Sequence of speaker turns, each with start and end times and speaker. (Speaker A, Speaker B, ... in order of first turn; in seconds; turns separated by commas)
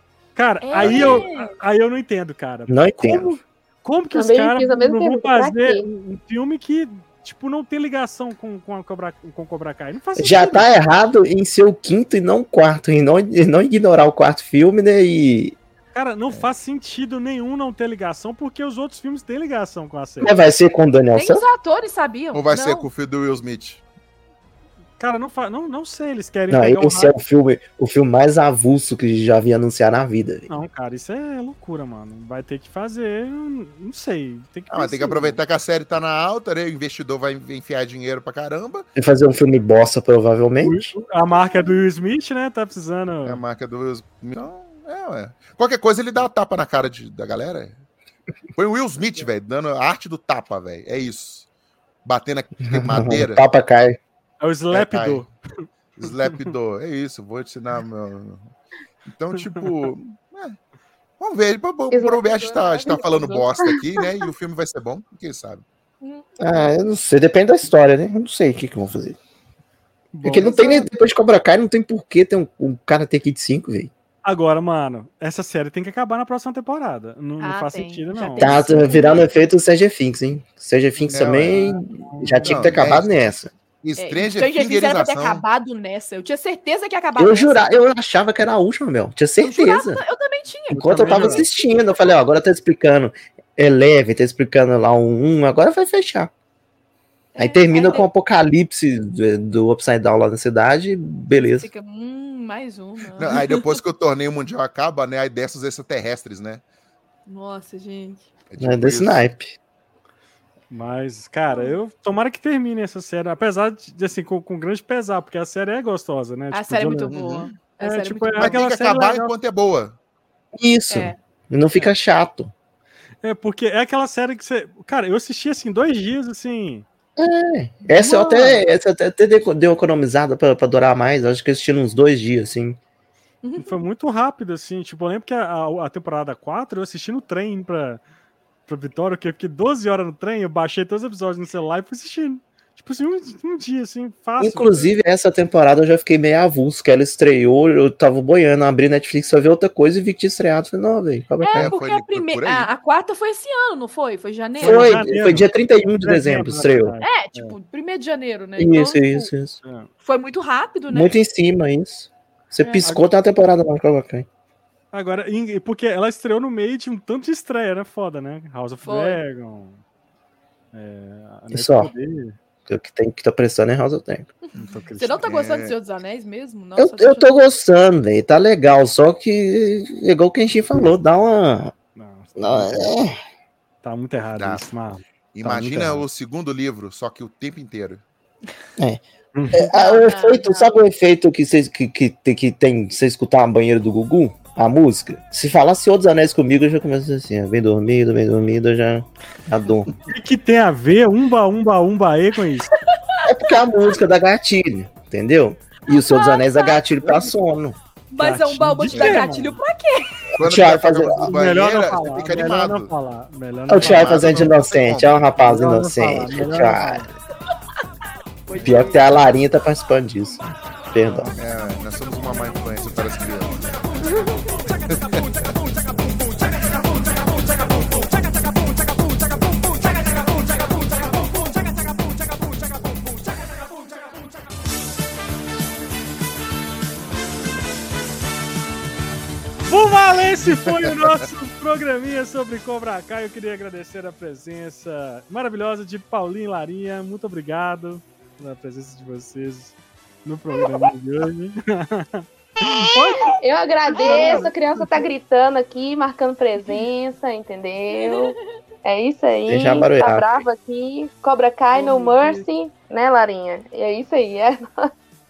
Speaker A: 0.3-10.7, Speaker B: 0.6-1.5, Speaker C: 0.8-1.2, Speaker C: 2.7-3.3, Speaker D: 4.1-5.8, Speaker C: 10.2-15.6, Speaker A: 15.9-20.4, Speaker C: 20.2-21.4, Speaker B: 21.1-22.9, Speaker E: 22.3-23.8, Speaker A: 25.0-27.1, Speaker C: 26.5-30.5, Speaker A: 30.5-35.4, Speaker E: 34.7-38.9, Speaker C: 39.0-40.9, Speaker A: 40.6-43.4, Speaker E: 43.2-47.8, Speaker E: 48.5-51.5, Speaker E: 52.0-53.4, Speaker C: 52.7-54.0, Speaker A: 54.4-56.5, Speaker E: 54.7-55.2, Speaker E: 56.0-58.5, Speaker E: 59.1-60.6, Speaker A: 59.3-59.6, Speaker E: 61.2-65.6, Speaker D: 61.9-64.1, Speaker B: 66.0-66.7, Speaker C: 66.4-69.2, Speaker A: 70.1-70.9, Speaker C: 70.2-73.9, Speaker A: 74.2-79.1, Speaker B: 77.4-79.4, Speaker C: 78.4-83.5, Speaker A: 81.0-82.8, Speaker E: 81.1-81.6, Speaker E: 82.4-83.1, Speaker E: 83.8-85.4, Speaker B: 84.0-87.7, Speaker C: 87.2-90.0, Speaker B: 89.4-91.7, Speaker A: 90.7-91.5, Speaker C: 90.8-96.3, Speaker B: 97.3-98.1, Speaker C: 97.4-101.7, Speaker B: 101.5-103.8, Speaker E: 103.1-106.6, Speaker B: 107.3-108.2, Speaker E: 108.5-109.2, Speaker C: 108.6-109.5, Speaker A: 110.7-117.1, Speaker B: 111.5-111.8, Speaker B: 116.5-118.6, Speaker E: 117.1-117.5, Speaker A: 117.8-119.3, Speaker E: 118.4-120.0, Speaker C: 120.5-122.5, Speaker B: 120.9-121.2, Speaker A: 123.2-126.8, Speaker C: 127.2-132.8, Speaker A: 127.9-128.5, Speaker B: 133.4-133.8, Speaker A: 133.6-138.0, Speaker A: 138.7-144.9, Speaker C: 144.4-151.8, Speaker B: 151.4-155.1, Speaker E: 151.5-152.7, Speaker A: 154.6-155.5, Speaker C: 154.6-156.9, Speaker A: 156.0-157.5, Speaker B: 157.0-159.3, Speaker C: 158.6-159.6, Speaker A: 159.6-159.9, Speaker B: 160.0-161.1, Speaker C: 160.9-164.2, Speaker B: 162.6-162.9, Speaker A: 164.9-169.8, Speaker B: 168.8-169.2, Speaker A: 170.7-172.4, Speaker C: 171.5-171.9, Speaker C: 172.7-174.3, Speaker B: 174.4-177.3, Speaker A: 174.5-175.3, Speaker E: 175.2-175.7, Speaker C: 176.8-181.7, Speaker A: 181.9-182.9, Speaker C: 182.4-183.1, Speaker A: 183.8-186.0, Speaker E: 184.2-184.7, Speaker E: 185.3-188.0, Speaker C: 188.8-199.9, Speaker A: 189.3-189.7, Speaker B: 189.7-190.8, Speaker A: 200.1-202.7, Speaker B: 203.1-203.6, Speaker C: 203.2-207.8, Speaker B: 205.9-206.8, Speaker B: 208.1-210.3, Speaker A: 208.2-209.6, Speaker E: 208.9-209.3, Speaker E: 210.4-212.9, Speaker C: 210.4-211.3, Speaker A: 211.2-214.6, Speaker C: 213.7-217.1, Speaker E: 213.8-215.2, Speaker A: 215.4-217.1, Speaker B: 218.5-219.2, Speaker A: 218.5-218.9, Speaker C: 218.6-221.3, Speaker E: 221.2-223.7, Speaker B: 224.1-224.5, Speaker E: 224.9-225.5, Speaker A: 239.7-253.4, Speaker E: 240.4-241.2, Speaker D: 253.4-264.6, Speaker A: 253.9-255.1, Speaker B: 254.0-254.5, Speaker B: 257.9-258.4, Speaker C: 259.5-260.4, Speaker B: 261.7-262.5